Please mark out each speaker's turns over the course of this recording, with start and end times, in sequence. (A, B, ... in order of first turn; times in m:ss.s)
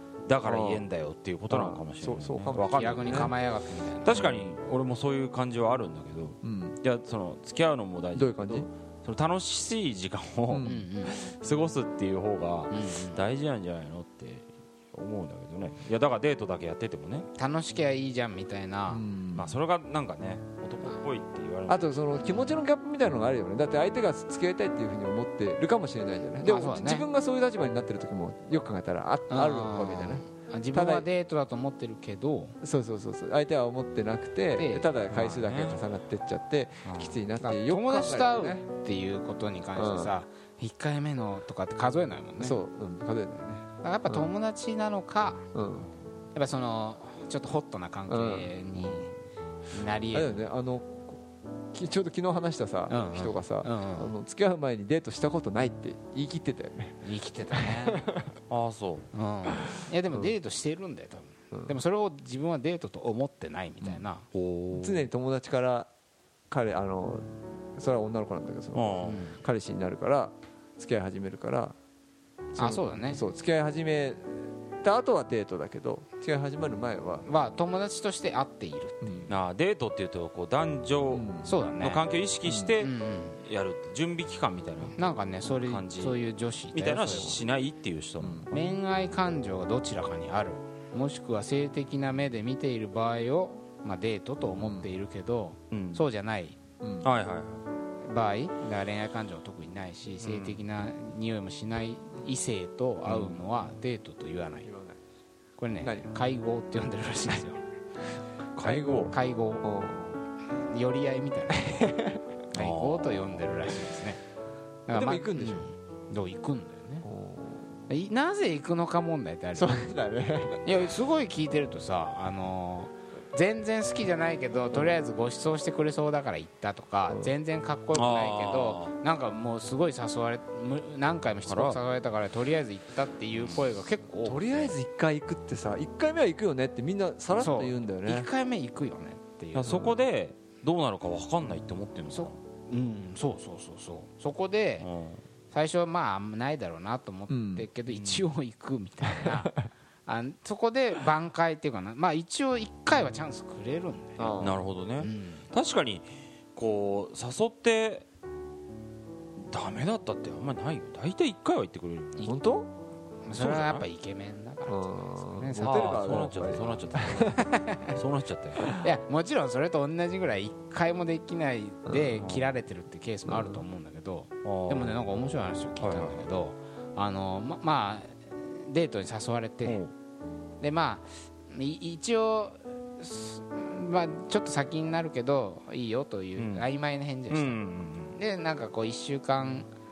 0:00.3-0:03.4 A
0:00.4-0:00.9 B
0:01.5-0:03.3 B
0:02.5-0:04.3 C
0:04.0-0:17.3 A
0:06.4-0:06.8 B
0:08.1-0:08.7 B
0:10.5-0:10.8 B
0:10.6-0:11.2 C
0:12.7-0:13.2 C
0:17.4-0:19.1 C
0:18.9-0:19.6 B
0:19.3-0:21.9 A
0:21.7-0:31.1 B
0:22.1-0:22.6 C
0:26.4-0:27.1 C
0:29.3-0:32.6 C
0:32.6-0:38.6 B
0:34.6-0:35.7 C
0:36.8-0:42.6 C
0:39.8-0:40.1 B
0:42.4-0:44.3 B
0:43.8-0:45.5 C
0:45.5-0:45.9 B
0:46.4-0:49.1 C
0:48.1-0:48.5 B
0:48.8-0:49.0 A
0:49.7-0:50.5 C
0:50.1-0:57.0 B
0:52.9-0:54.1 C
0:57.0-0:58.0 C
0:57.5-0:58.3 B
0:58.5-0:59.1 A
0:59.1-1:04.2 C
1:04.3-1:05.1 A
1:04.7-1:05.9 B
1:06.5-1:11.8 B
1:08.8-1:09.3 A
1:09.0-1:09.4 C
1:12.6-1:17.3 B
1:12.6-1:13.2 C
1:17.3-1:19.3 C
1:19.0-1:19.3 B
1:19.3-1:26.2 A
1:21.1-1:21.5 B
1:21.4-1:22.0 C
1:22.4-1:22.7 B
1:22.8-1:23.4 C
1:25.0-1:27.4 C
1:26.7-1:28.8 A
1:27.0-1:27.4 B
1:28.2-1:28.5 B
1:28.5-1:36.6 C
1:34.6-1:34.9 B
1:35.7-1:36.0 A
1:36.8-1:37.1 B
1:37.0-1:37.6 A
1:38.0-1:44.7 C
1:40.2-1:40.6 A
1:43.1-1:43.4 A
1:44.6-1:45.0 B
1:45.6-1:47.6 C
1:45.8-1:46.1 B
1:48.6-1:49.1 A
1:48.6-1:50.2 B
1:48.7-1:49.6 C
1:50.4-1:52.0 C
1:51.7-1:52.3 B
1:52.5-1:54.2 C
1:52.5-1:53.7 A
1:54.9-1:57.1 C
1:54.9-1:55.7 B
1:57.0-1:57.8 B
1:57.9-1:59.8 C
1:59.6-2:00.6 B
2:00.6-2:14.8 C
2:07.9-2:09.0 A
2:11.5-2:11.8 A
2:14.2-2:18.3 B
2:17.3-2:20.0 C
2:19.6-2:22.4 A
2:22.1-2:24.9 C
2:24.8-2:25.2 A
2:25.5-2:34.4 C
2:27.3-2:27.7 B
2:27.9-2:28.3 A
2:34.2-2:34.6 B
2:34.4-2:38.1 A
2:35.0-2:35.5 C
2:39.4-2:42.4 A
2:42.2-2:42.7 B
2:43.2-2:46.2 C
2:43.4-2:43.8 A
2:44.7-2:47.4 B
2:45.6-2:48.7 A
2:47.3-2:48.0 C
2:48.6-2:59.8 C
2:52.2-2:52.5 A
2:53.3-2:53.6 B
2:54.4-2:55.0 A
2:55.8-2:56.3 A
2:59.6-2:59.9 A
3:00.6-3:07.6 C
3:06.4-3:06.6 A
3:07.3-3:08.2 A
3:08.1-3:09.7 C